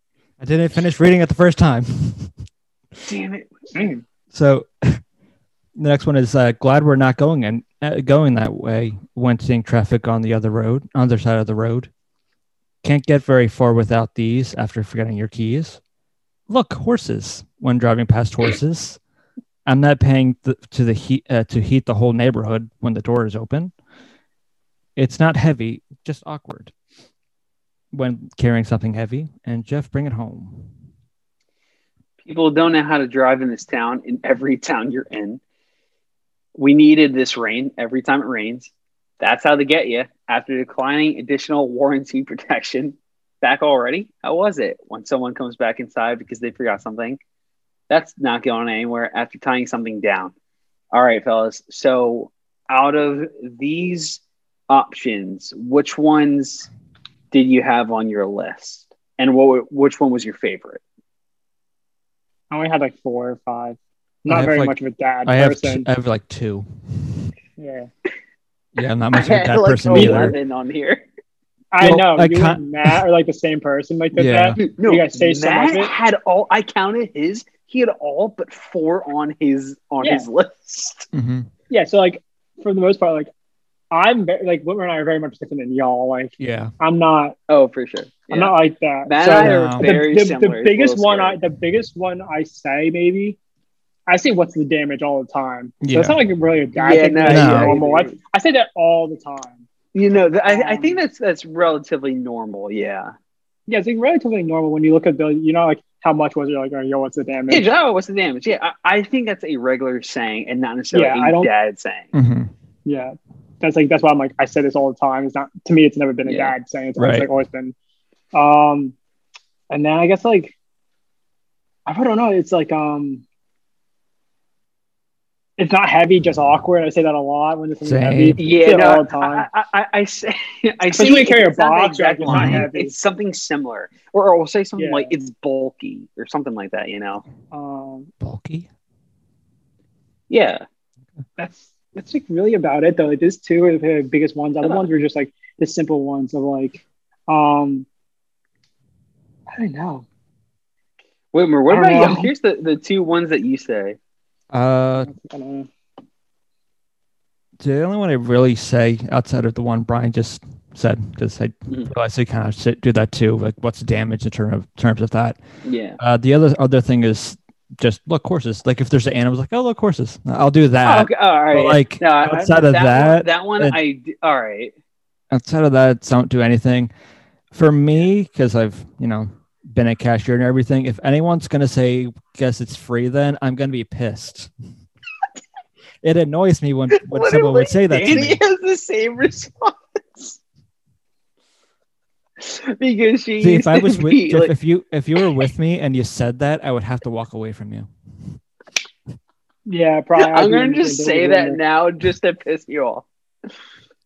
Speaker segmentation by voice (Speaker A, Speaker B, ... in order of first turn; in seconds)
Speaker A: 0.4-2.3, 4.3-5.0, 5.8-11.9, 12.8-15.8, 16.5-19.0, 19.6-23.7, 24.9-26.7, 27.9-30.7, 64.3-67.3, 68.8-70.3, 71.8-73.0, 74.1-74.6, 81.1-81.5, 86.4-86.7, 89.4-89.8, 95.8-96.2, 97.3-97.7, 112.1-112.5, 117.0-117.3, 127.8-128.4, 132.3-132.6, 138.2-138.7, 154.5-155.1, 157.6-165.4, 166.0-173.8, 175.3-176.9, 177.5-184.5, 186.0-188.4, 193.4-197.9
Speaker B: 3.0-3.5, 32.2-35.4, 36.5-47.2, 47.9-50.3, 50.9-56.7, 57.3-60.8, 69.1-71.0, 74.6-81.1, 87.5-91.4, 96.8-98.2, 99.9-103.1, 107.5-112.1, 116.2-116.5, 128.4-137.2, 140.3-140.6, 151.3-154.0, 165.6-166.0, 170.8-174.7, 187.0-190.4, 192.4-194.5, 200.2-203.1
Speaker C: 3.7-4.0, 62.5-65.9, 67.6-67.9, 69.9-70.3, 71.7-75.9, 81.7-83.3, 83.9-87.3, 88.3-93.4, 94.1-99.6, 100.5-101.0, 103.7-107.7, 110.9-111.5, 112.8-117.8, 118.3-119.0, 119.7-120.5, 121.8-123.2, 125.6-129.5, 130.9-132.9, 134.8-135.1, 137.5-138.1, 141.4-147.8, 149.5-150.1, 151.7-152.3, 155.0-155.7, 199.7-201.6